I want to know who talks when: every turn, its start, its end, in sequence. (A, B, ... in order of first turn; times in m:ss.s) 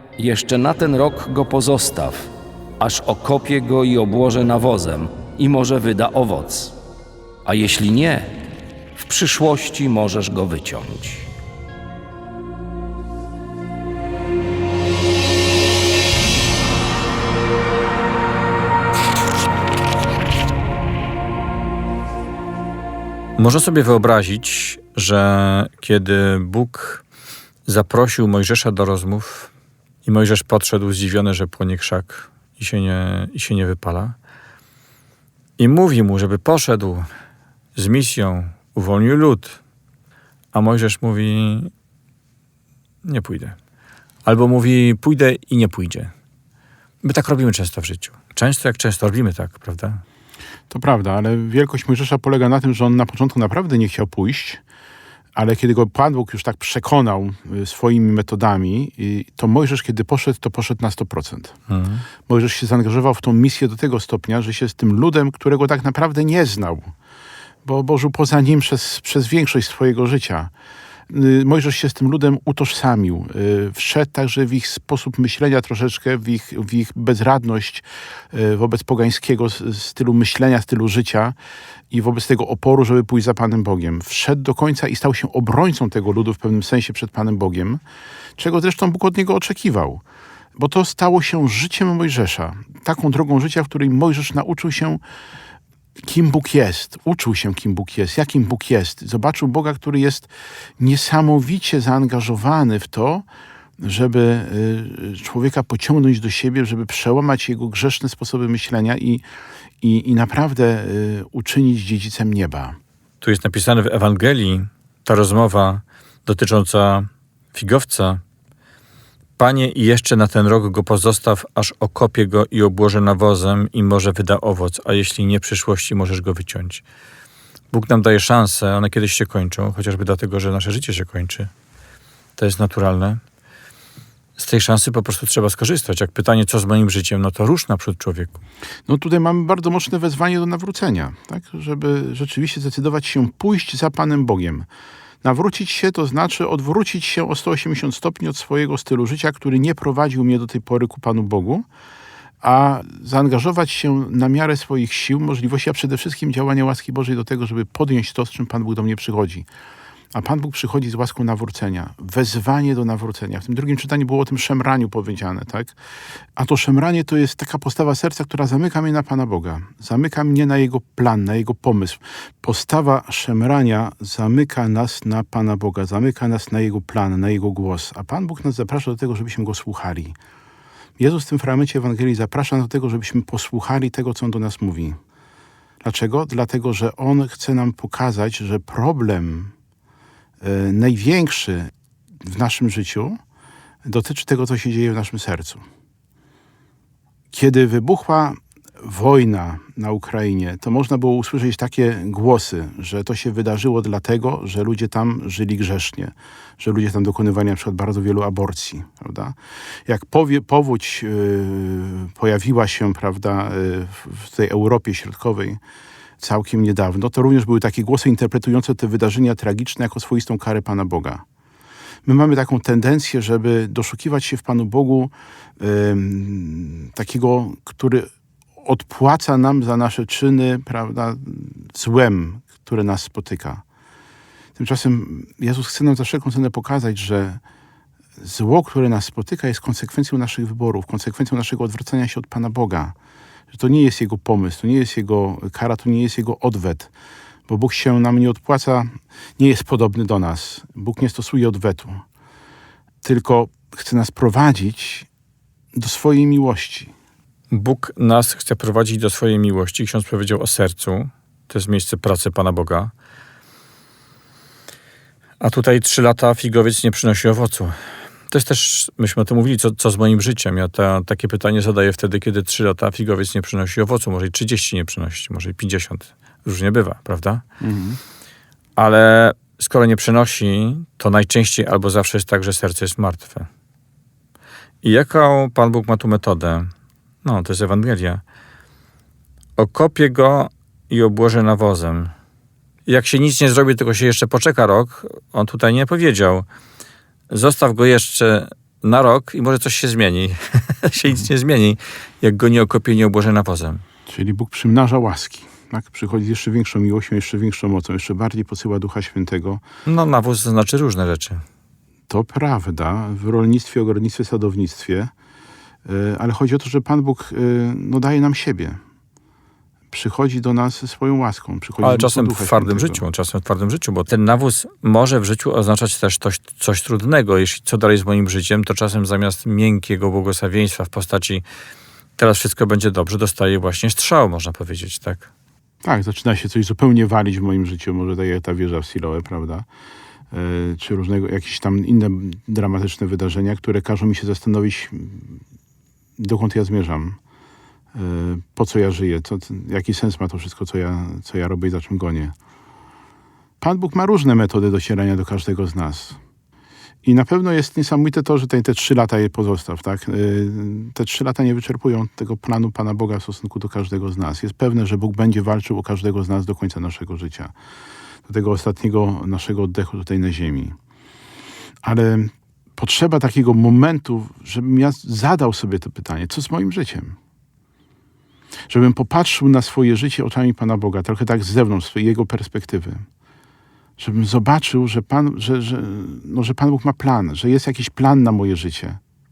0:00.2-0:06.8 A
0:07.4-0:08.4 A
0:09.0-0:11.3 A
0:23.4-0:27.0 B
0:27.7-0:29.5 B
0:30.0-0:34.2 B
0:35.6-0:37.1 B
0:37.8-0:39.6 B
0:40.5-0:41.7 B
0:43.0-0:43.6 B
0:44.2-0:46.1 B
0:47.0-0:50.0 B
0:50.7-0:54.6 C
0:55.4-1:01.6 C
1:01.7-1:02.0 B
1:02.3-1:06.9 C
1:07.6-1:10.5 C
1:11.1-1:21.4 C
1:21.9-1:27.8 C
1:28.4-1:30.0 C
1:30.6-1:35.0 C
1:36.0-1:43.2 C
1:43.8-1:49.2 C
1:49.8-1:52.8 C
1:53.2-1:58.2 B
1:59.4-2:06.8 B
2:07.7-2:11.5 B
2:12.4-2:13.2 B
2:14.4-2:18.4 B
2:18.9-2:24.7 C
2:25.2-2:31.7 C
2:32.4-2:39.5 C
2:40.1-2:45.8 C
2:46.4-3:00.2 C
3:01.0-3:05.0 C
3:05.8-3:09.5 C
3:10.4-3:13.2 C
3:13.8-3:15.6 C
3:17.3-3:35.6 C
3:36.2-3:41.2 C
3:42.0-3:53.6 C
3:54.6-3:57.4 C
3:58.2-4:03.0 C
4:03.5-4:06.9 C
4:07.5-4:12.0 C
4:13.0-4:15.1 C
4:15.8-4:16.9 C
4:17.5-4:22.9 B
4:25.4-4:27.8 B
4:28.3-4:37.4 B
4:37.6-4:38.0 C
4:38.8-4:43.5 B
4:44.8-4:46.7 B
4:47.2-4:48.2 B
4:49.6-4:52.1 B
4:52.9-4:56.5 B
4:57.3-5:03.8 B
5:04.1-5:09.6 C
5:09.9-5:11.4 B
5:12.1-5:15.1 C
5:15.8-5:18.8 C
5:19.9-5:23.0 C
5:21.8-5:31.4 B
5:32.2-5:35.3 B
5:35.8-5:39.7 C
5:40.3-5:45.4 C
5:46.2-5:47.2 C
5:47.9-5:52.4 C
5:53.6-5:56.2 C
5:57.0-6:07.5 C
6:08.3-6:10.8 C
6:11.8-6:17.2 C
6:18.7-6:23.1 C
6:24.0-6:29.0 C